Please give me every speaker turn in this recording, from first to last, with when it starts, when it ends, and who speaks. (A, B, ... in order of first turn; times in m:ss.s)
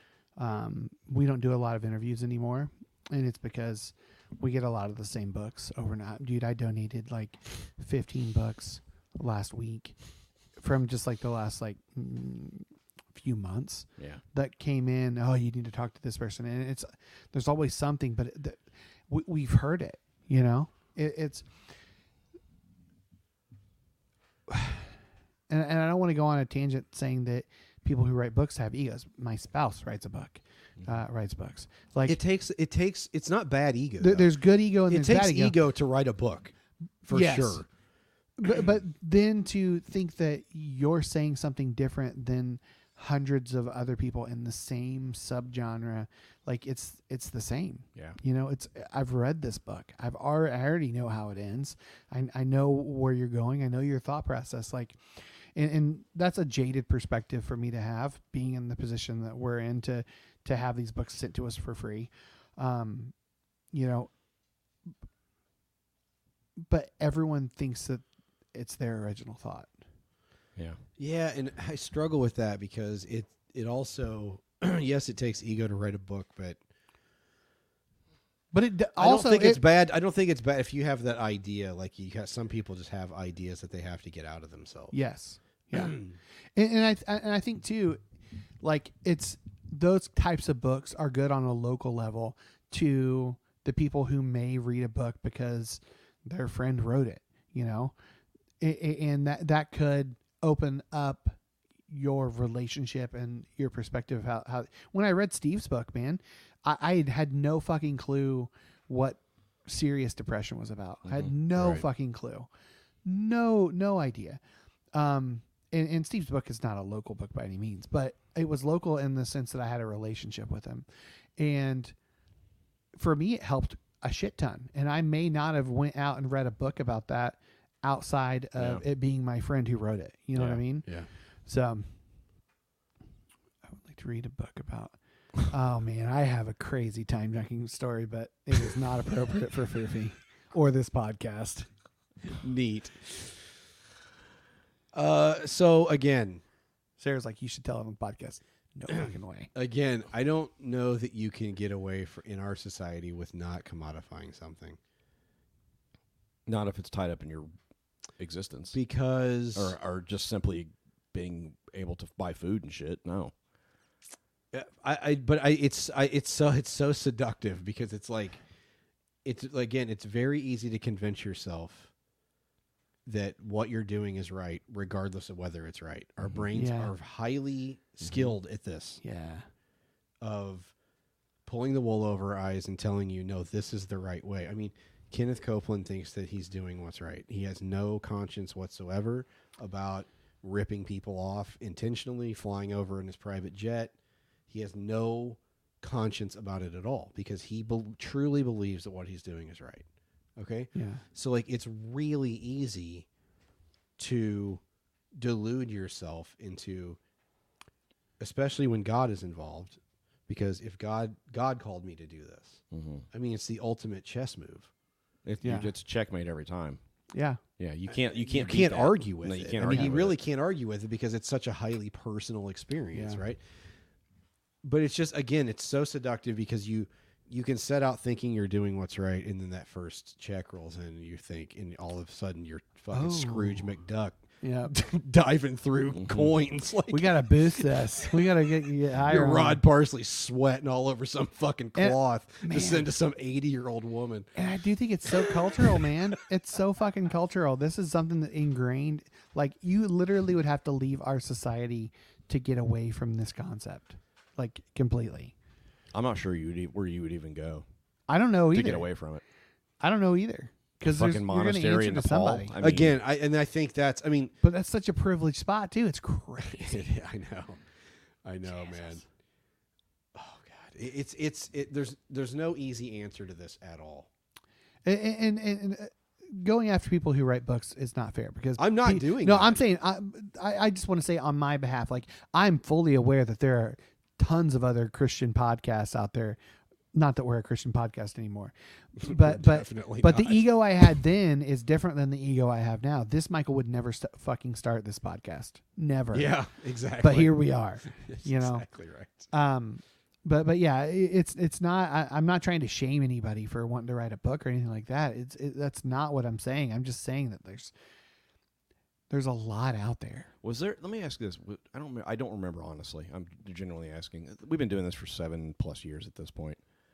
0:00.4-0:09.9 A
0:10.6-0:21.5 A
0:24.5-0:24.9 A
0:25.5-0:32.2 A
0:32.0-0:36.5 B
0:34.0-0:35.5 A
0:37.0-0:37.7 B
0:37.1-0:37.6 A
0:38.4-1:03.1 A
1:03.7-1:04.1 A
1:06.6-1:09.7 A
1:11.0-1:16.6 B
1:18.5-1:19.6 A
1:19.0-1:24.9 B
1:24.9-1:26.0 A
1:25.7-1:26.2 B
1:26.6-1:28.0 A
1:28.6-1:37.9 A
1:38.6-1:41.4 A
1:41.9-1:52.5 A
1:51.0-1:51.3 C
1:51.5-1:51.8 B
1:53.0-1:54.4 A
1:54.9-2:00.8 A
2:01.4-2:01.9 A
2:03.0-2:10.9 A
2:08.6-2:08.8 C
2:10.3-2:10.6 C
2:11.4-2:12.0 A
2:13.7-2:21.7 A
2:22.4-2:23.4 B
2:24.9-2:26.4 B
2:27.0-2:29.5 A
2:29.5-2:34.8 B
2:36.4-2:37.5 C
2:38.2-2:38.8 C
2:38.7-2:39.8 B
2:39.5-2:43.3 C
2:44.5-2:48.4 B
2:49.2-2:51.9 B
2:53.0-2:59.0 B
2:56.5-2:56.9 A
2:58.0-2:58.3 C
2:59.0-2:59.4 A
3:00.2-3:00.7 B
3:01.4-3:13.9 B
3:14.5-3:19.8 B
3:20.4-3:23.0 B
3:20.7-3:21.0 A
3:24.0-3:24.6 B
3:25.1-3:27.0 B
3:28.2-3:34.7 B
3:32.7-3:33.0 C
3:35.2-3:36.8 C
3:35.4-3:35.7 A
3:37.1-3:37.4 A
3:37.6-3:40.2 C
3:37.9-3:43.4 B
3:42.9-3:43.2 A
3:44.6-3:58.5 B
3:52.9-3:53.6 A
3:54.4-3:54.7 A
3:55.9-3:56.3 C
3:56.9-3:59.6 A
3:59.0-4:04.3 B
4:01.8-4:02.9 A
4:04.4-4:15.3 A
4:15.9-4:17.6 C
4:18.1-4:18.9 A
4:18.5-4:19.2 C
4:19.8-4:22.6 A
4:20.8-4:23.0 C
4:22.6-4:24.3 B
4:24.4-4:26.9 A
4:26.4-4:27.6 B
4:28.2-4:29.0 B
4:28.5-4:29.0 A
4:30.1-4:34.1 B
4:34.8-4:46.4 A
4:38.6-4:39.6 B
4:46.9-4:56.4 A
4:49.0-4:50.9 B
4:56.1-4:59.3 B
4:57.0-4:58.7 A
4:59.3-5:07.7 A
5:09.1-5:10.3 A
5:10.4-5:16.6 C